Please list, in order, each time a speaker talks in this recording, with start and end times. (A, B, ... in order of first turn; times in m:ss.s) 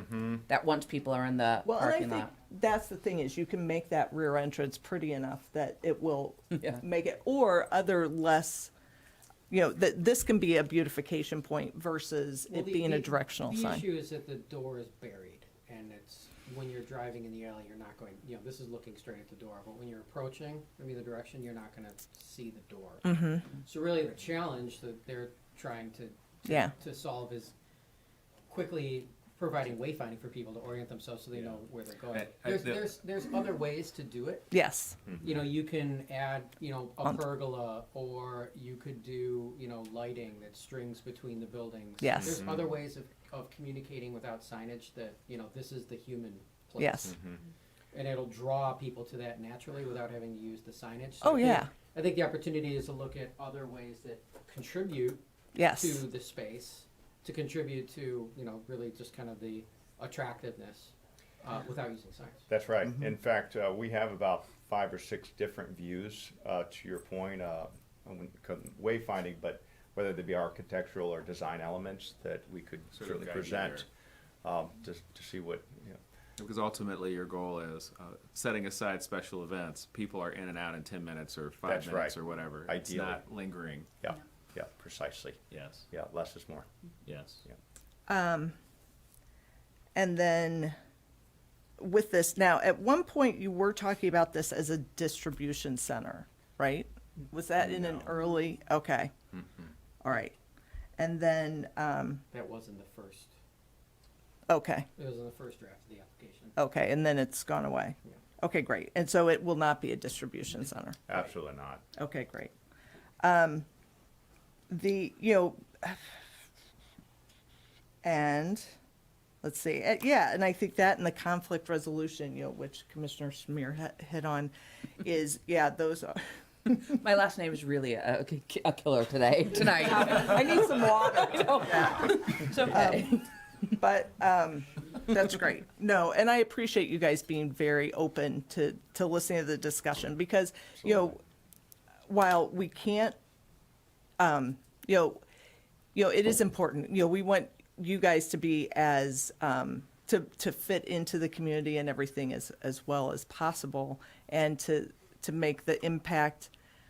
0:00.1-0:00.4 A
0:00.5-0:02.3 B
0:01.6-0:08.7 C
0:09.5-0:13.8 C
0:12.5-0:27.5 D
0:23.0-0:23.4 C
0:26.4-0:26.7 C
0:28.5-0:34.5 D
0:32.1-0:32.9 A
0:34.5-0:35.0 C
0:35.1-0:47.2 D
0:42.0-0:42.4 C
0:46.8-0:47.1 C
0:47.9-1:02.4 D
0:51.2-0:51.7 C
0:55.5-0:56.0 C
1:02.5-1:13.9 E
1:12.9-1:13.8 A
1:14.4-1:16.0 E
1:16.4-1:23.9 A
1:21.7-1:23.2 E
1:24.0-1:26.7 E
1:25.5-1:25.9 A
1:27.0-1:27.4 A
1:28.1-1:28.5 C
1:29.9-1:30.8 C
1:31.8-1:39.1 C
1:40.0-1:40.4 C
1:41.0-1:42.2 C
1:42.3-1:43.3 D
1:44.5-1:44.9 C
1:45.0-1:46.5 D
1:46.6-1:51.2 C
1:51.1-1:51.8 E
1:52.0-1:52.5 C
1:53.2-1:53.6 C
1:54.7-1:56.1 C
1:58.0-1:58.7 C
1:59.4-2:06.3 C
2:06.7-2:13.1 B
2:10.0-2:21.2 C
2:20.8-2:21.1 E
2:22.1-2:23.2 C
2:24.2-2:25.2 C
2:25.9-2:36.5 C